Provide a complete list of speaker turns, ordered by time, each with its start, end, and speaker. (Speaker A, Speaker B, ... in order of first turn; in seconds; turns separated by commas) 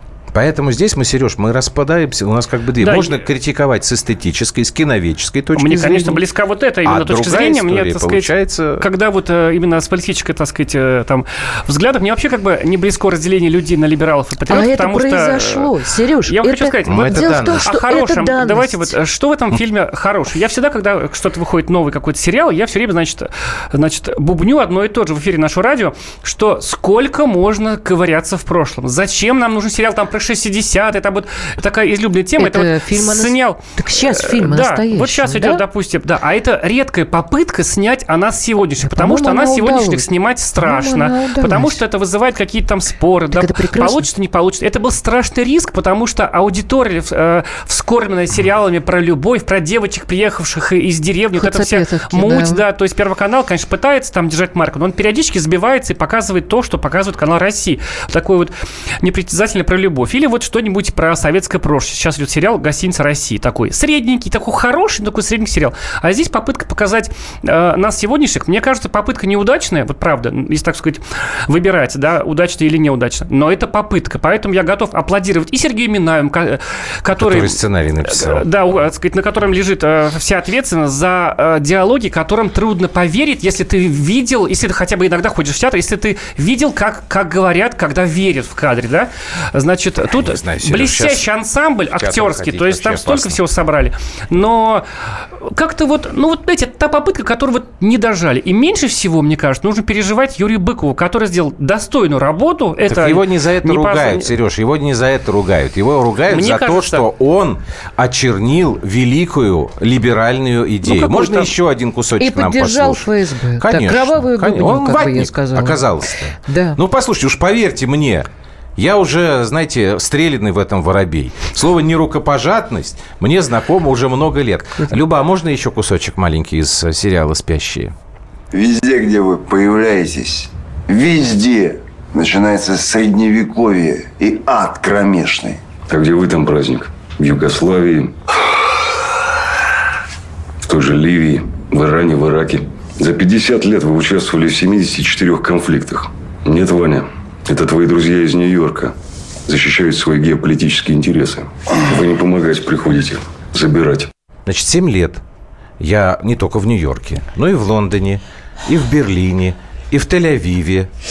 Speaker A: 0.3-6.2, Speaker B: 2.8-3.2, Speaker B: 5.5-15.7, Speaker A: 6.8-8.9, Speaker C: 14.5-18.9, Speaker B: 16.3-94.8, Speaker A: 16.9-17.6, Speaker C: 32.4-35.6, Speaker C: 38.8-41.8, Speaker C: 43.3-44.1, Speaker C: 51.4-52.6, Speaker A: 77.2-78.5, Speaker A: 90.0-91.3, Speaker A: 91.9-93.4, Speaker B: 95.4-104.3, Speaker A: 102.9-128.0, Speaker B: 106.3-107.1, Speaker B: 110.8-111.5, Speaker C: 112.2-116.8, Speaker D: 128.5-135.6, Speaker E: 135.9-138.2, Speaker E: 140.6-148.9, Speaker E: 149.5-154.1, Speaker A: 154.5-155.2, Speaker A: 155.8-160.9